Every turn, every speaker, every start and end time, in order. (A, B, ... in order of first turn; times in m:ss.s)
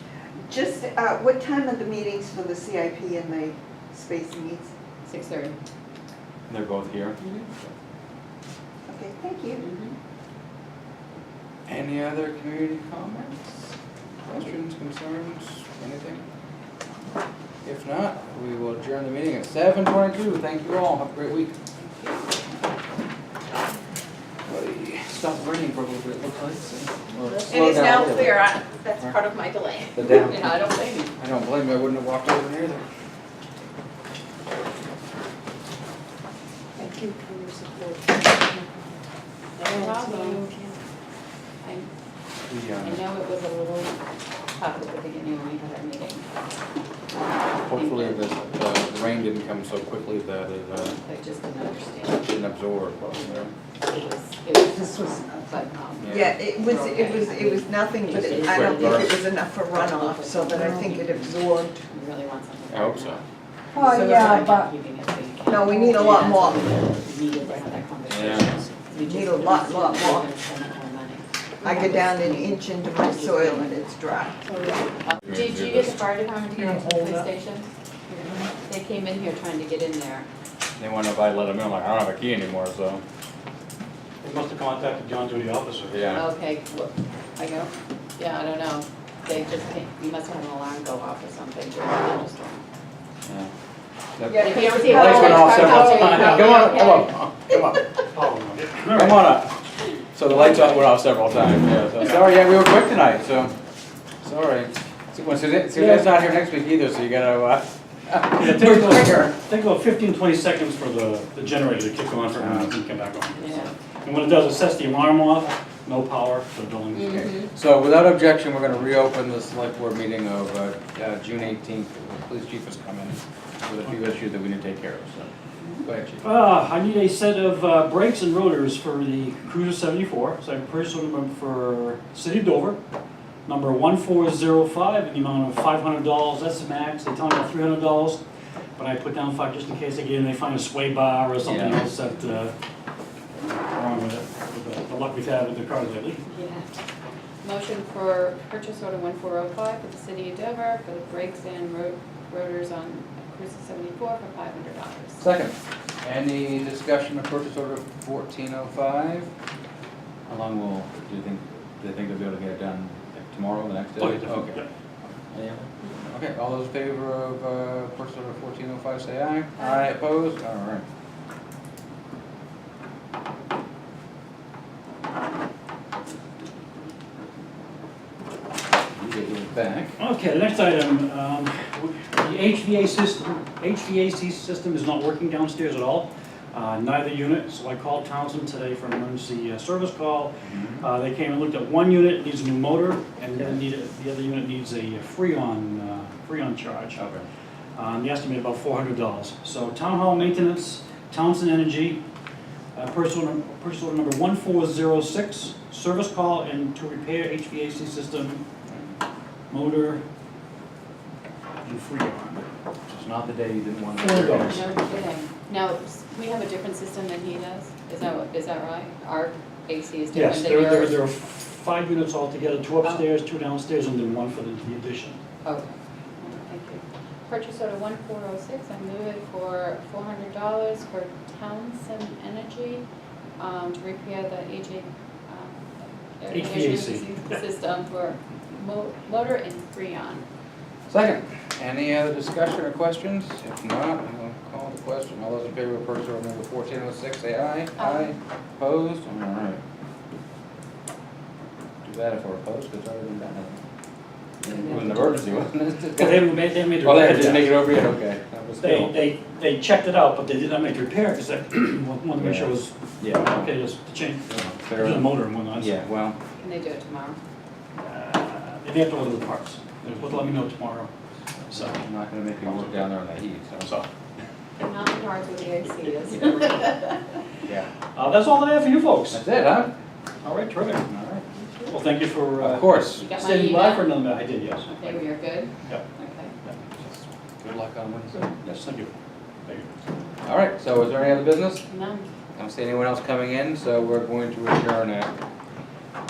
0:00.5-0:04.7 A
0:05.0-0:05.5 B
0:06.5-0:07.7 C
0:07.2-0:07.5 B
0:08.9-0:09.7 A
0:09.6-0:09.9 B
0:11.6-0:13.7 C
0:14.3-0:16.2 C
0:17.6-0:21.5 C
0:24.5-0:28.4 C
0:27.2-0:31.1 B
0:27.4-0:29.4 A
0:29.9-0:32.8 C
0:36.8-0:38.9 D
0:39.6-0:40.5 B
0:39.7-0:40.7 D
0:41.6-0:41.9 B
0:42.5-0:43.0 C
0:42.8-0:44.0 B
0:44.5-0:46.2 B
0:47.6-0:51.0 C
0:47.7-0:48.4 B
0:50.8-0:52.4 B
0:52.2-0:53.5 C
0:53.1-0:59.2 B
0:56.0-0:56.3 C
0:56.1-1:01.8 A
0:58.1-0:59.1 C
0:59.7-1:03.2 B
1:02.7-1:03.2 C
1:03.7-1:04.6 A
1:03.8-1:04.7 D
1:03.8-1:13.7 B
1:05.5-1:06.7 A
1:08.1-1:08.5 C
1:09.0-1:10.3 A
1:11.6-1:14.4 A
1:14.4-1:14.9 D
1:15.0-1:17.7 B
1:15.2-1:16.0 C
1:16.5-1:17.3 E
1:18.6-1:20.3 B
1:20.8-1:23.0 C
1:24.2-1:26.0 E
1:25.9-1:26.2 C
1:26.1-1:32.6 B
1:33.2-1:33.5 C
1:34.2-1:38.0 C
1:34.3-1:36.2 A
1:34.3-1:37.3 B
1:38.1-1:39.3 E
1:38.9-1:39.5 C
1:40.1-1:43.5 C
1:44.2-1:49.3 C
1:45.7-1:46.1 E
1:48.3-1:57.4 E
1:52.4-1:52.8 C
1:53.4-1:53.7 B
1:56.9-1:57.5 B
1:57.4-2:05.3 C
2:05.8-2:06.2 C
2:06.2-2:12.8 E
2:13.4-2:18.2 E
2:18.8-2:22.5 E
2:21.4-2:21.8 C
2:23.4-2:26.2 E
2:26.3-2:26.7 B
2:27.4-2:35.2 B
2:35.2-2:39.3 C
2:40.3-2:44.6 C
2:44.0-2:44.7 E
2:45.3-2:50.8 C
2:58.9-3:00.0 C
3:00.0-3:17.0 E
3:10.4-3:10.9 C
3:17.0-3:17.2 C
3:17.7-3:22.0 E
3:22.7-3:28.4 E
3:28.7-3:28.9 C
3:29.5-3:30.0 E
3:31.6-3:32.4 E
3:32.9-3:34.7 C
3:34.0-3:34.6 E
3:34.5-3:41.0 B
3:40.1-3:45.2 E
3:45.4-3:52.8 B
3:53.4-3:55.6 B
3:56.2-4:00.2 B
3:56.3-3:57.1 E
4:00.9-4:09.6 C
4:07.8-4:08.1 B
4:11.8-4:13.6 C
4:14.4-4:19.0 C
4:14.4-4:15.2 B
4:15.9-4:17.6 E
4:18.6-4:25.8 E
4:22.2-4:23.4 C
4:24.3-4:26.2 C
4:26.4-4:27.2 B
4:27.8-4:30.9 E
4:31.5-4:31.8 E
4:31.6-4:33.9 C
4:34.6-4:37.0 B
4:37.9-4:39.2 E
4:39.1-4:39.7 C
4:40.2-4:40.8 E
4:40.9-4:41.2 C
4:41.3-4:41.7 B
4:41.7-4:44.7 E
4:42.4-4:43.0 C
4:43.0-4:44.0 B
4:44.6-4:46.3 B
4:46.8-4:48.3 C
4:48.4-4:48.9 E
4:49.4-4:49.7 E
4:50.2-4:51.6 C
4:51.6-4:52.1 B
4:52.4-4:55.1 C